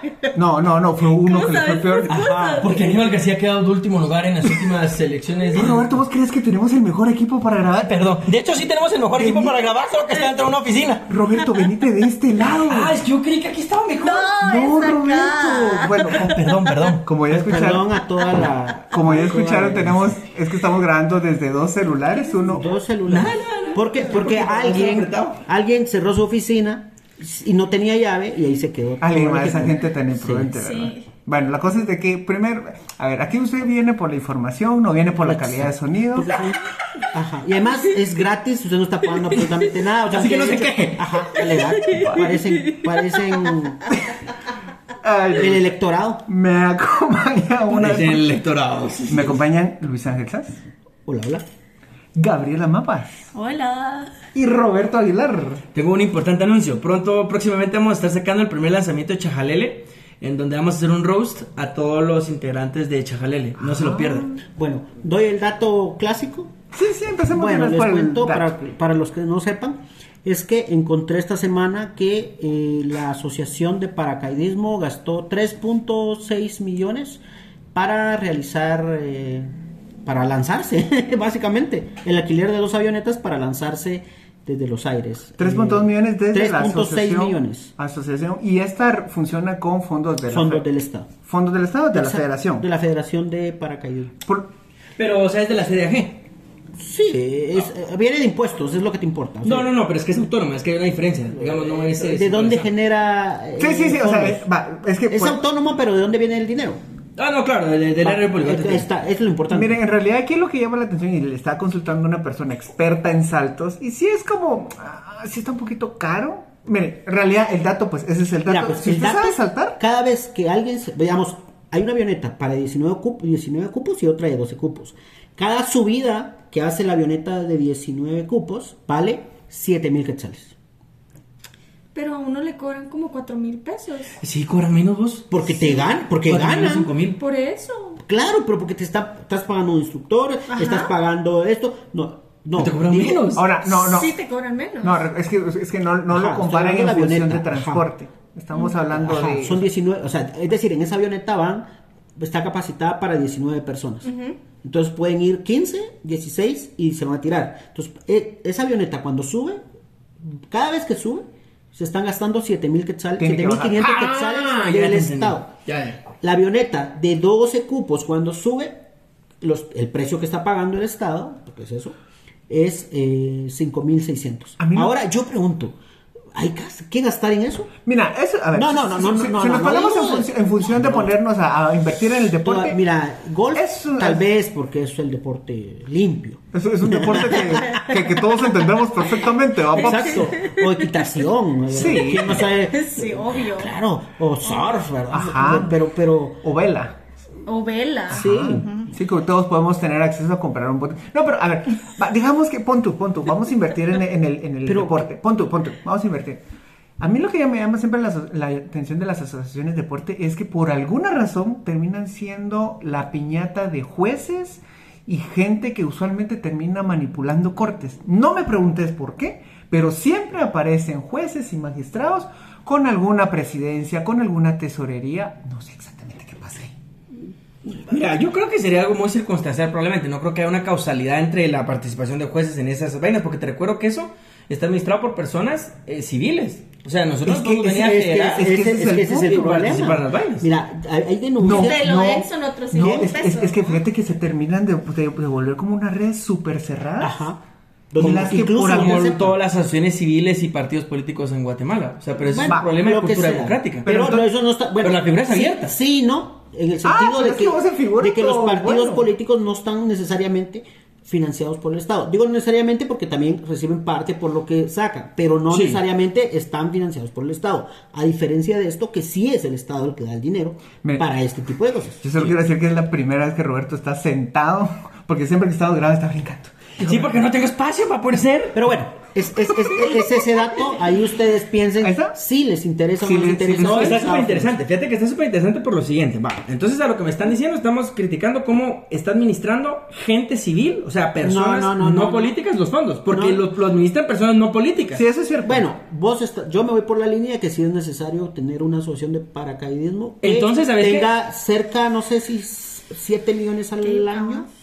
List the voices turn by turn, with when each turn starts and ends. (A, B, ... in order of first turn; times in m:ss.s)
0:00.3-0:02.2 A
0:01.2-0:02.9 B
0:02.1-0:02.8 C
0:02.6-0:05.9 D
0:05.5-0:08.0 A
0:07.8-0:11.0 D
0:09.2-0:09.5 A
0:11.1-0:13.0 A
0:12.5-0:14.3 D
0:14.0-0:16.3 B
0:14.4-0:17.9 A
0:16.0-0:17.0 D
0:17.3-0:20.2 C
0:18.9-0:22.7 A
0:22.5-0:30.5 C
0:23.1-0:25.4 D
0:29.0-0:36.3 A
0:30.6-0:31.0 B
0:35.2-0:43.9 C
0:40.1-0:41.2 D
0:41.9-0:42.3 A
0:41.9-0:42.4 B
0:45.0-0:45.7 A
0:45.4-0:46.2 C
0:46.3-0:48.3 A
0:47.7-0:49.4 D
0:49.1-0:50.6 A
0:51.0-0:51.4 C
0:52.1-0:53.3 A
0:53.3-0:54.1 B
0:54.3-0:55.6 A
0:55.7-1:04.3 D
1:03.6-1:04.4 A
1:04.6-1:06.5 C
1:06.7-1:08.5 A
1:07.3-1:17.2 C
1:17.7-1:19.5 C
1:20.0-1:27.7 C
1:25.4-1:30.6 A
1:30.3-1:31.1 C
1:31.2-1:32.6 A
1:31.9-1:34.1 C
1:35.0-1:36.2 D
1:36.8-1:39.7 C
1:39.4-1:42.7 D
1:41.3-1:44.4 C
1:43.6-1:45.4 A
1:45.1-1:46.8 C
1:47.2-1:48.9 D
1:48.0-1:49.8 C
1:49.5-1:59.8 A
1:58.4-2:10.5 C
2:11.9-2:14.2 B
2:14.2-2:17.2 D
2:15.3-2:16.9 C
2:17.2-2:18.0 B
2:18.1-2:23.4 C
2:20.5-2:20.9 B
2:22.6-2:23.4 D
2:23.3-2:24.1 A
2:23.6-2:25.0 B
2:24.8-2:29.7 A
2:26.1-2:27.8 C
2:28.9-2:34.1 C
2:34.0-2:34.4 B
2:34.6-2:39.6 C
2:40.5-2:45.5 C
2:43.2-2:43.9 A
2:43.7-2:46.0 D
2:46.2-2:48.8 C
2:49.4-2:52.0 C
2:52.5-2:55.8 C
2:54.6-2:54.9 A
2:56.3-2:57.7 C
2:57.8-3:02.8 A
2:58.5-3:01.1 C
3:02.4-3:07.8 C
3:03.5-3:04.2 A
3:06.5-3:10.3 A
3:09.7-3:16.4 C
3:10.2-3:10.6 B
3:11.7-3:12.5 A
3:12.4-3:13.8 B
3:15.1-3:15.8 A
3:16.4-3:16.9 A
3:17.4-3:18.9 B
3:18.1-3:26.4 A
3:18.1-3:18.7 C
3:24.6-3:25.1 C
3:27.0-3:46.7 A
3:47.9-3:58.5 D
3:57.2-3:59.9 A
3:57.5-4:01.9 C
3:59.2-4:00.5 D
4:01.4-4:07.2 A
4:01.4-4:03.8 B
4:02.7-4:03.1 C
4:07.0-4:07.4 C
4:07.9-4:09.3 C
4:08.0-4:09.3 A
4:08.0-4:13.9 D
4:12.2-4:32.0 C
4:13.8-4:14.3 A
4:14.8-4:15.7 D
4:16.8-4:19.1 A
4:25.5-4:25.8 D
4:32.0-4:37.2 A
4:36.8-4:38.6 D
4:38.5-4:44.5 C
4:41.8-4:42.1 A
4:43.0-4:44.1 A
4:43.6-4:55.0 D
4:51.2-4:52.3 C
4:53.1-4:53.4 C
4:54.9-4:55.7 A
4:55.4-5:04.5 C
5:00.2-5:01.1 D
5:03.8-5:04.4 B